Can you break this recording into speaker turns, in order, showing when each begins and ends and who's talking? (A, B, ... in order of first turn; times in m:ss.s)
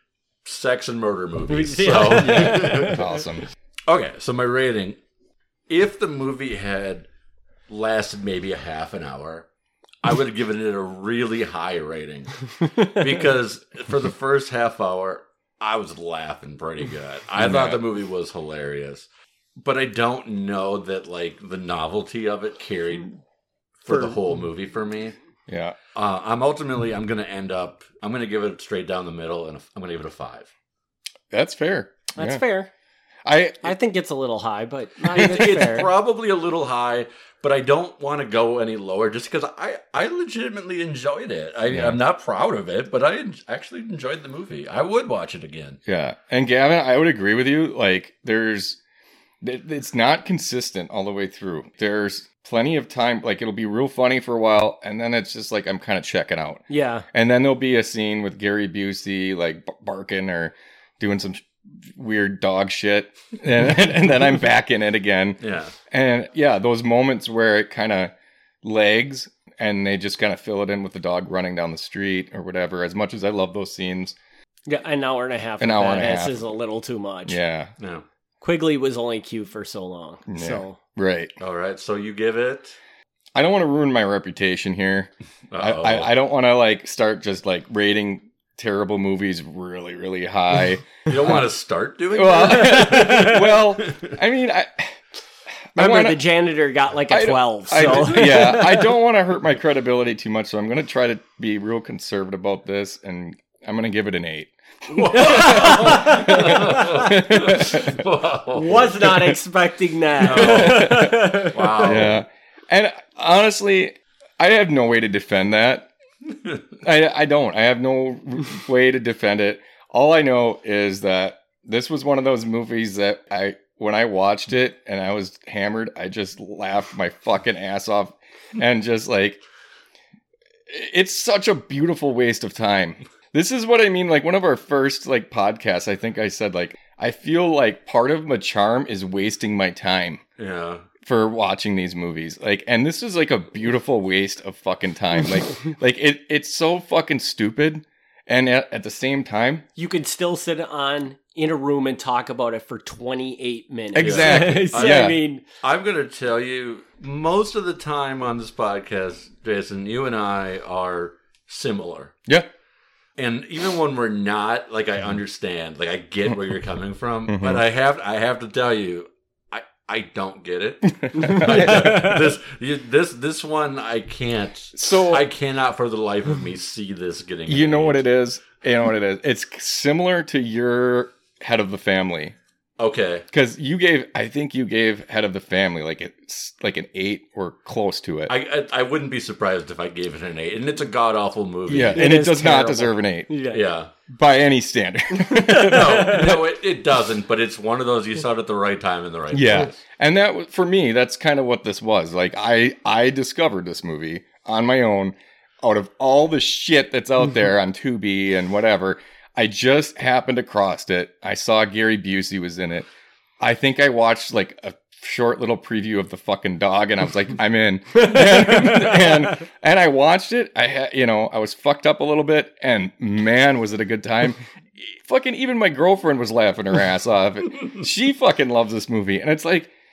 0:00.4-0:03.0 A
0:01.5-0:03.2 B
0:02.1-0:03.4 C
0:03.9-0:05.0 A
0:05.7-0:07.1 A
0:07.7-0:09.5 A
0:10.0-0:19.1 A
0:17.4-0:17.8 C
0:19.6-0:23.1 A
0:23.8-0:25.2 A
0:23.9-0:24.2 B
0:25.5-0:25.8 C
0:25.9-0:30.5 A
0:31.3-0:32.4 C
0:32.2-0:32.7 B
0:33.2-0:33.7 C
0:33.6-0:35.9 B
0:35.1-0:45.8 A
0:41.7-0:42.0 C
0:45.8-0:48.8 C
0:49.4-1:08.1 C
0:56.7-0:57.0 B
1:05.4-1:05.7 A
1:08.6-1:14.2 C
1:14.7-1:17.4 B
1:15.6-1:16.5 C
1:17.3-1:17.7 C
1:17.8-1:18.0 A
1:18.4-1:20.8 B
1:20.3-1:21.3 C
1:21.4-1:22.8 A
1:23.3-1:31.4 C
1:25.5-1:26.1 A
1:31.0-1:34.1 A
1:32.1-1:35.0 C
1:32.8-1:33.2 B
1:35.7-1:36.2 C
1:35.8-1:38.9 B
1:37.1-1:48.0 C
1:44.9-1:49.0 A
1:45.1-1:47.1 B
1:48.5-1:52.0 B
1:49.0-1:49.3 C
1:50.2-1:52.2 A
1:50.3-1:55.9 C
1:56.8-2:09.4 C
2:10.7-2:20.2 C
2:20.4-2:20.8 A
2:21.0-2:29.6 C
2:29.8-2:35.4 B
2:33.9-2:35.2 C
2:34.0-2:42.1 A
2:43.2-2:58.0 A
2:47.3-2:47.6 C
2:50.9-2:52.1 C
2:51.1-2:52.2 B
2:54.7-2:55.2 C
2:57.5-3:02.4 C
3:02.8-3:03.2 A
3:03.3-3:08.3 C
3:08.3-3:12.0 A
3:11.7-3:13.3 C
3:11.9-3:13.6 B
3:13.5-3:13.9 A
3:14.1-3:16.4 C
3:15.2-3:16.4 B
3:15.6-3:19.8 A
3:19.3-3:32.9 C
3:33.4-3:49.7 C
3:38.0-3:39.1 B